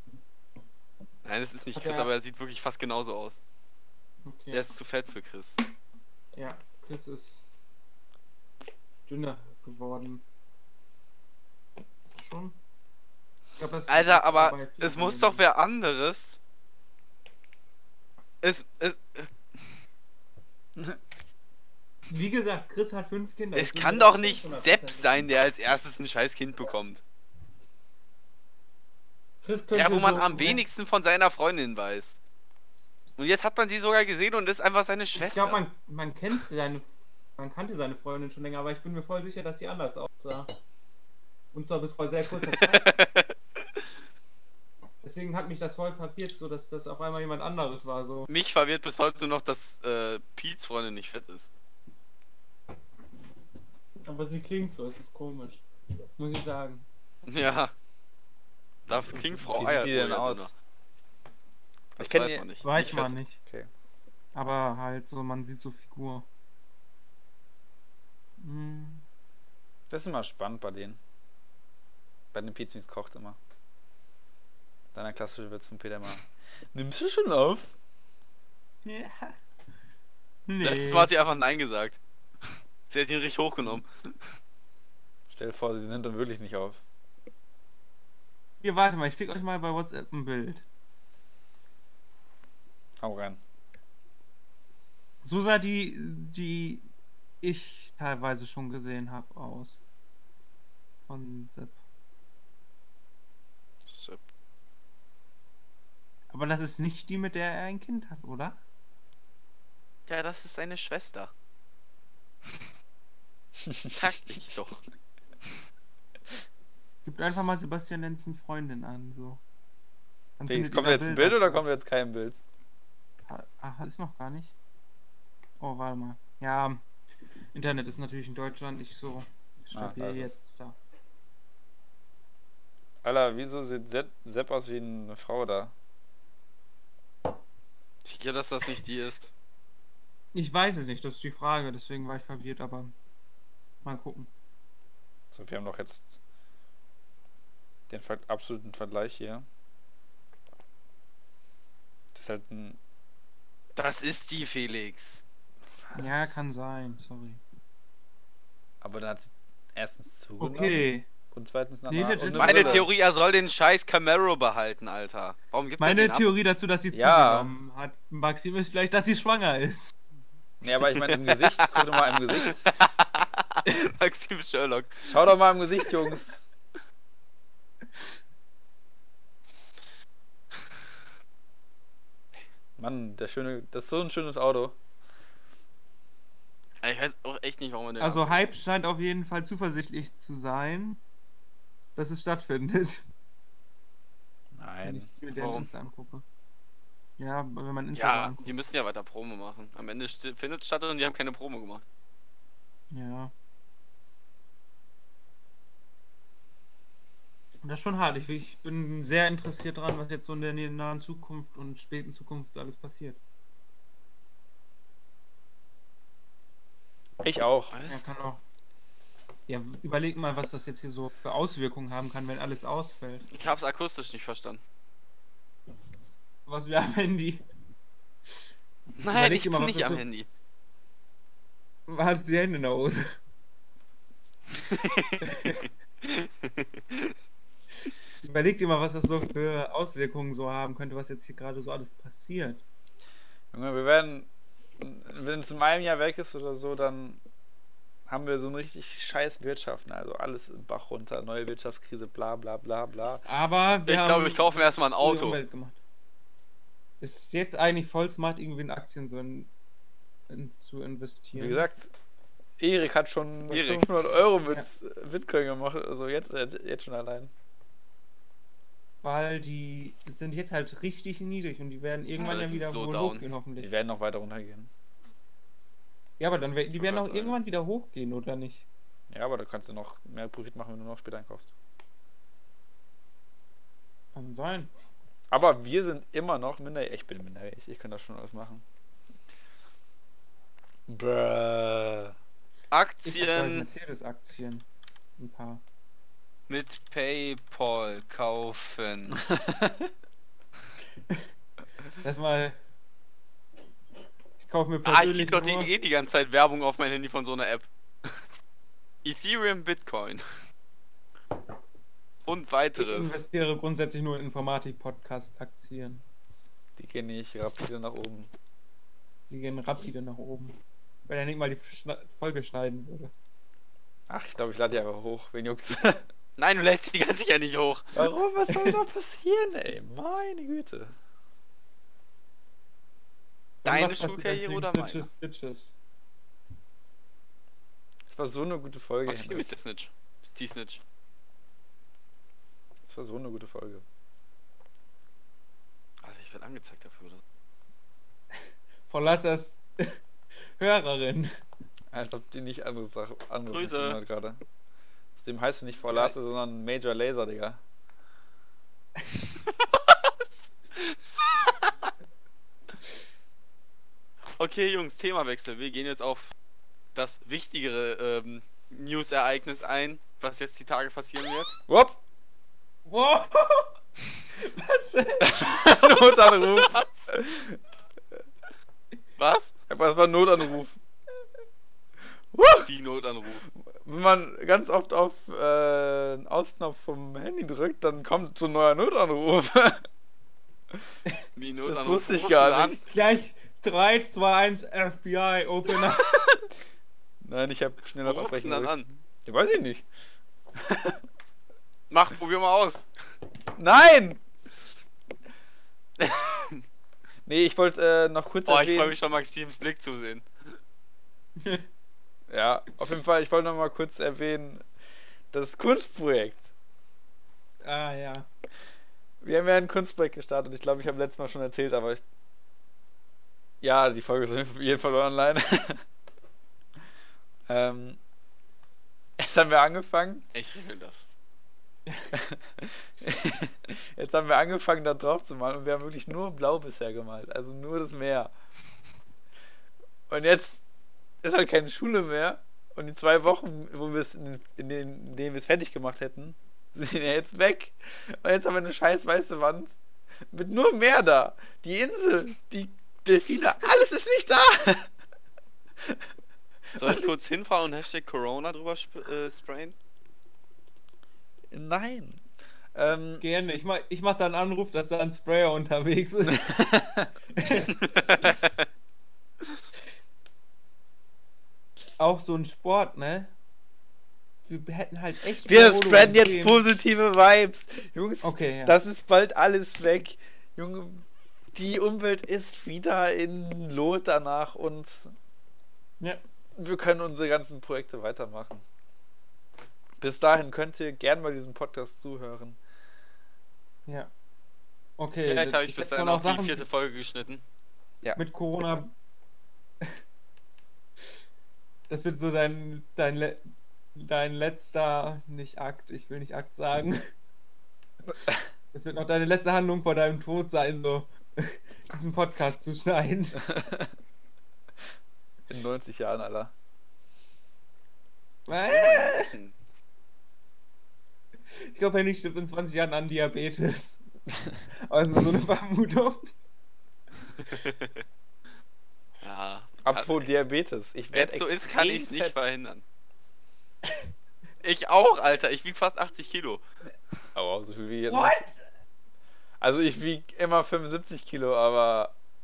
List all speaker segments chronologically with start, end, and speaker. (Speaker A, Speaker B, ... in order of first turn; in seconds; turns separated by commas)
Speaker A: 1.2-3.4, Speaker B: 1.7-2.1, Speaker B: 4.2-4.6, Speaker A: 4.5-5.6, Speaker B: 6.3-7.5, Speaker B: 9.1-10.2, Speaker B: 12.1-12.6, Speaker B: 13.6-15.4, Speaker A: 13.9-16.4, Speaker A: 18.4-19.3, Speaker B: 22.1-25.3, Speaker A: 23.5-27.0, Speaker B: 29.4-30.6, Speaker A: 29.7-32.2, Speaker A: 33.2-35.6, Speaker B: 35.2-36.9, Speaker B: 37.4-40.5, Speaker B: 41.5-42.9, Speaker A: 42.4-43.3, Speaker B: 45.0-48.3, Speaker A: 48.3-51.5, Speaker B: 54.0-55.6, Speaker B: 56.2-56.9, Speaker A: 57.3-57.7, Speaker A: 58.9-60.5, Speaker C: 59.5-60.5, Speaker A: 62.0-63.1, Speaker C: 62.0-62.4, Speaker B: 62.6-63.4, Speaker B: 64.3-66.2, Speaker B: 68.4-69.0, Speaker C: 69.9-71.0, Speaker C: 72.3-73.4, Speaker C: 74.9-77.7, Speaker B: 78.8-79.4, Speaker B: 80.5-81.1, Speaker A: 80.6-82.0, Speaker A: 82.9-84.1, Speaker C: 85.3-86.8, Speaker B: 88.6-90.6, Speaker C: 93.0-93.4, Speaker B: 95.2-96.9, Speaker B: 97.4-99.8, Speaker B: 101.1-101.8, Speaker A: 103.8-104.2, Speaker B: 106.3-108.6, Speaker A: 110.1-111.3, Speaker C: 113.6-114.1, Speaker A: 113.9-114.8, Speaker B: 117.0-119.4, Speaker B: 120.4-121.6, Speaker C: 120.5-122.4, Speaker B: 123.3-124.5, Speaker B: 125.6-126.8, Speaker B: 127.5-130.8, Speaker C: 129.7-130.3, Speaker C: 133.0-135.7, Speaker A: 138.0-139.3, Speaker B: 140.3-142.9, Speaker B: 143.8-144.3, Speaker C: 145.3-146.2, Speaker C: 147.9-149.4, Speaker C: 152.1-152.8, Speaker A: 153.8-155.2, Speaker C: 155.8-156.4, Speaker B: 155.9-157.4, Speaker C: 158.8-160.8, Speaker B: 160.4-161.1, Speaker C: 161.3-162.9, Speaker B: 161.9-162.9, Speaker A: 162.3-166.3, Speaker B: 165.8-169.9, Speaker C: 166.9-167.5, Speaker C: 170.6-172.7, Speaker A: 170.9-175.1, Speaker C: 175.1-176.4, Speaker C: 182.8-184.8, Speaker A: 186.8-188.5, Speaker B: 188.0-191.0, Speaker B: 191.9-193.0, Speaker C: 194.5-195.1, Speaker B: 194.8-196.2, Speaker A: 195.4-195.7, Speaker B: 197.2-198.5, Speaker A: 197.9-201.8, Speaker B: 202.9-203.3, Speaker B: 207.6-213.2, Speaker C: 217.2-217.7, Speaker A: 217.7-218.1, Speaker B: 217.9-218.4, Speaker B: 219.5-223.3, Speaker A: 223.3-224.6, Speaker B: 226.4-227.4, Speaker A: 229.0-230.3, Speaker B: 229.1-230.0, Speaker B: 231.9-233.1, Speaker A: 234.6-237.1, Speaker B: 235.2-235.7, Speaker B: 238.2-242.6, Speaker C: 243.5-244.3, Speaker C: 244.8-247.2, Speaker C: 248.1-253.2, Speaker B: 253.2-255.8, Speaker A: 253.9-255.4, Speaker B: 257.0-259.5, Speaker B: 260.3-261.7, Speaker C: 261.3-261.9, Speaker C: 262.6-267.3, Speaker B: 263.5-263.9, Speaker A: 263.5-263.9, Speaker B: 264.4-264.7, Speaker B: 269.0-273.7, Speaker A: 272.2-273.2, Speaker C: 273.6-274.7, Speaker B: 276.2-278.6, Speaker A: 276.8-277.4, Speaker C: 279.1-281.5, Speaker B: 284.1-284.7, Speaker C: 285.3-288.6, Speaker C: 290.9-292.1, Speaker A: 292.7-293.7, Speaker B: 293.0-294.6, Speaker B: 295.2-295.6, Speaker A: 296.5-299.2, Speaker C: 299.2-299.9, Speaker B: 302.0-302.6, Speaker B: 304.4-305.7, Speaker A: 304.8-307.7, Speaker A: 309.0-310.2, Speaker A: 312.2-313.2, Speaker B: 312.7-316.0, Speaker C: 316.8-318.3, Speaker B: 319.3-320.6, Speaker B: 321.1-323.1, Speaker C: 324.1-326.0, Speaker A: 326.4-327.9, Speaker C: 327.9-330.9, Speaker B: 328.5-328.8, Speaker B: 333.6-335.8, Speaker A: 333.6-335.1, Speaker C: 338.1-339.5, Speaker A: 339.1-340.8, Speaker C: 342.8-343.8, Speaker A: 346.0-347.2, Speaker B: 348.9-350.0, Speaker B: 350.6-351.3, Speaker C: 351.9-354.4, Speaker A: 353.4-354.0, Speaker C: 355.1-357.6, Speaker B: 355.9-356.1, Speaker A: 359.4-361.9, Speaker A: 364.4-366.3, Speaker A: 366.9-371.6, Speaker C: 371.7-372.0, Speaker B: 372.9-373.7, Speaker B: 374.4-375.5, Speaker C: 375.2-377.6, Speaker A: 376.4-376.9, Speaker A: 379.2-379.5, Speaker C: 379.7-380.8, Speaker C: 382.3-382.7, Speaker A: 382.6-383.4, Speaker C: 383.6-389.8, Speaker A: 391.4-392.8, Speaker C: 391.7-392.8, Speaker B: 392.9-396.2, Speaker A: 395.9-396.4, Speaker C: 397.2-399.8, Speaker A: 398.0-398.9, Speaker C: 400.5-401.0, Speaker A: 401.9-402.9, Speaker C: 403.6-404.2, Speaker A: 406.0-406.6, Speaker C: 407.2-409.0, Speaker A: 408.4-410.2, Speaker B: 411.4-411.6, Speaker C: 412.3-414.6, Speaker C: 415.3-416.5, Speaker B: 417.6-418.3, Speaker C: 419.2-422.0, Speaker C: 423.6-425.8, Speaker C: 427.5-428.0, Speaker C: 429.2-430.2, Speaker A: 430.3-431.1, Speaker C: 432.1-438.3, Speaker C: 440.1-440.6, Speaker C: 441.2-449.8, Speaker C: 450.3-454.9, Speaker C: 456.7-457.1, Speaker A: 456.7-459.8, Speaker C: 461.5-462.2, Speaker C: 462.7-463.2, Speaker B: 463.2-466.5, Speaker C: 466.3-467.1, Speaker B: 467.4-467.8, Speaker A: 467.9-468.6, Speaker B: 472.0-473.3, Speaker B: 474.4-476.6, Speaker C: 475.4-485.1, Speaker B: 478.2-478.8, Speaker C: 486.6-488.6, Speaker C: 490.0-492.6, Speaker B: 495.0-496.6, Speaker A: 495.2-497.4, Speaker B: 498.1-498.9, Speaker B: 501.9-507.1, Speaker B: 508.7-513.5, Speaker C: 513.4-513.9, Speaker C: 515.5-516.5, Speaker B: 518.5-519.3, Speaker A: 518.6-519.5, Speaker B: 521.5-524.0, Speaker B: 524.9-526.3, Speaker A: 527.4-528.0, Speaker A: 529.2-530.2, Speaker C: 529.8-532.4, Speaker A: 531.1-532.8, Speaker A: 534.6-536.6, Speaker C: 537.3-538.4, Speaker B: 538.1-538.6, Speaker C: 539.6-542.1